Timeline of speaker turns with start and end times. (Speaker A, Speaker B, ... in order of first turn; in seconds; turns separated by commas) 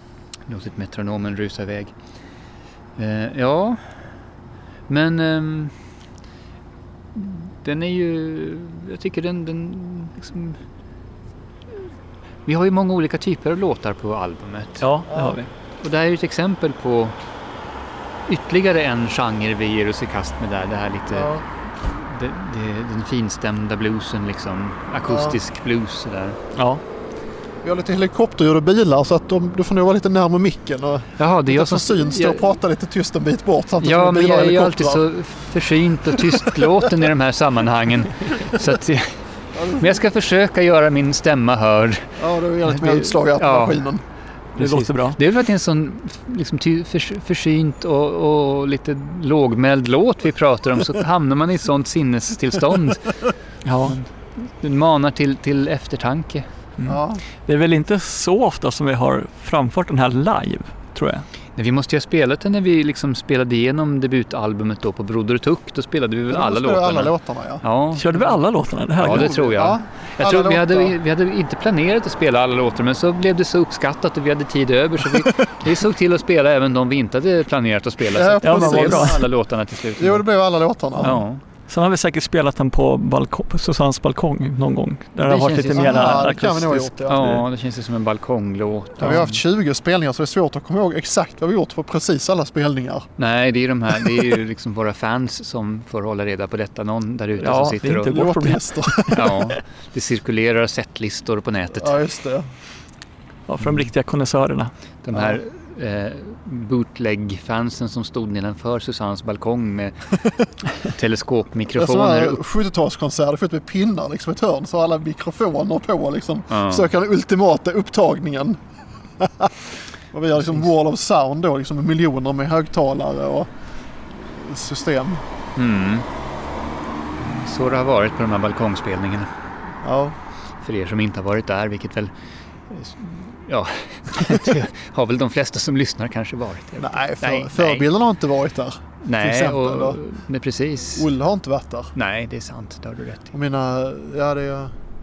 Speaker A: 0.5-1.9, Speaker A: 3.0-3.8, Speaker A: 4.9-5.7, Speaker A: 7.1-10.6, Speaker A: 12.4-14.9, Speaker B: 14.8-15.5, Speaker C: 15.1-15.4, Speaker A: 15.8-17.1, Speaker A: 18.3-26.4, Speaker C: 21.1-21.4, Speaker C: 25.0-25.4, Speaker B: 26.5-26.8, Speaker C: 27.6-35.0, Speaker A: 31.2-32.6, Speaker A: 33.8-39.2, Speaker C: 36.3-36.8, Speaker C: 39.5-39.9, Speaker A: 39.8-42.1, Speaker C: 42.2-44.0, Speaker A: 42.6-43.9, Speaker A: 44.5-53.2, Speaker B: 44.6-45.2, Speaker B: 53.6-53.9, Speaker A: 53.8-57.0, Speaker C: 56.9-57.2, Speaker B: 57.4-61.2, Speaker A: 61.6-68.1, Speaker C: 66.3-67.6, Speaker B: 67.9-69.5, Speaker A: 69.0-80.2, Speaker C: 69.0-70.9, Speaker C: 78.1-79.2, Speaker B: 78.4-79.2, Speaker C: 80.0-81.2, Speaker A: 81.0-81.4, Speaker B: 81.7-87.4, Speaker A: 85.2-86.3, Speaker C: 85.7-87.4, Speaker A: 87.1-89.4, Speaker C: 89.0-93.1, Speaker B: 89.0-89.3, Speaker A: 93.2-98.2, Speaker B: 97.4-99.4, Speaker C: 98.0-99.4, Speaker A: 99.1-102.0, Speaker C: 101.8-102.5, Speaker B: 103.5-104.7, Speaker A: 105.0-109.9, Speaker C: 105.1-105.4, Speaker A: 110.7-112.4, Speaker C: 111.7-118.6, Speaker A: 116.5-116.9, Speaker C: 119.2-119.5, Speaker C: 120.1-123.5, Speaker C: 124.3-125.2, Speaker A: 125.5-126.0, Speaker A: 127.2-129.3, Speaker C: 129.8-130.2, Speaker A: 130.6-132.1, Speaker A: 132.7-137.9, Speaker C: 136.8-140.0, Speaker A: 139.0-141.1, Speaker C: 140.9-141.9, Speaker A: 141.9-143.3, Speaker C: 143.3-144.7